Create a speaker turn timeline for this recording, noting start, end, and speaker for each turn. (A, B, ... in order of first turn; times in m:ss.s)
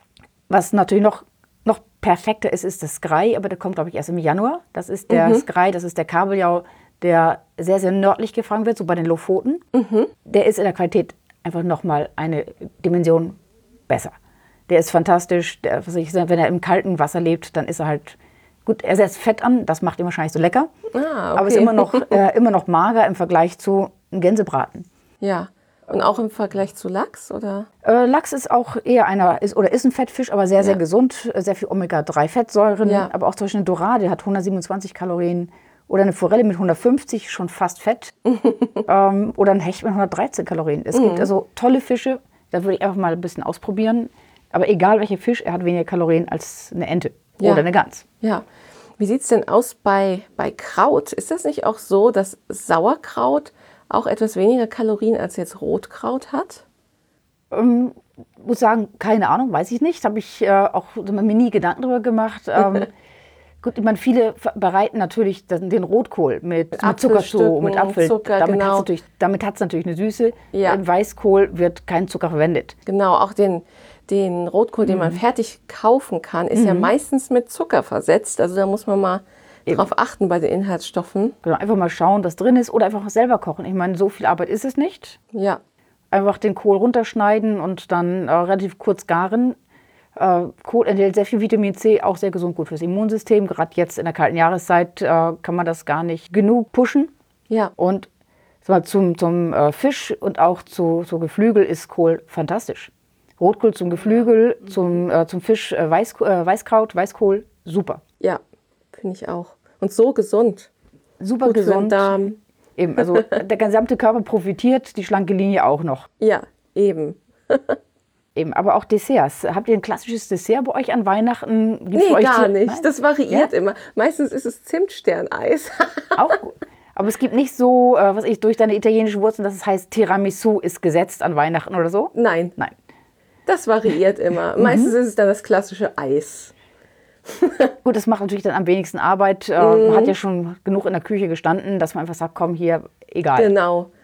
0:00.5-0:09.6 A
0:05.1-0:05.4 B
0:09.7-0:10.1 B
0:10.2-0:13.4 A
0:13.9-0:14.1 A
0:14.7-0:20.7 A
0:20.9-0:22.2 B
0:21.3-0:24.8 A
0:25.2-0:27.7 B
0:27.8-0:38.1 A
0:32.8-0:33.1 B
0:38.2-0:38.8 B
0:38.8-0:48.0 A
0:40.9-0:41.3 B
0:47.4-0:47.6 B
0:48.2-0:48.4 B
0:49.0-0:56.6 B
0:57.5-1:02.9 A
1:03.6-1:12.8 A
1:06.7-1:08.9 B
1:10.5-1:10.8 B
1:12.8-1:21.4 B
1:14.8-1:15.2 A
1:16.5-1:16.9 A
1:21.4-1:25.2 A
1:25.3-1:25.6 B
1:26.1-1:29.6 A
1:30.2-1:37.1 A
1:37.8-1:38.1 A
1:38.6-1:48.0 A
1:48.9-1:50.7 B
1:51.2-1:52.2 A
1:51.4-1:52.4 B
1:52.8-1:56.1 A
1:53.0-1:53.4 B
1:56.2-1:57.8 B
1:58.3-2:03.5 A
2:01.9-2:06.4 B
2:06.1-2:12.7 A
2:12.1-2:12.5 B
2:13.5-2:16.5 B
2:14.6-2:14.9 A
2:17.3-2:17.7 B
2:17.8-2:23.5 A
2:19.6-2:20.1 B
2:23.4-2:23.9 B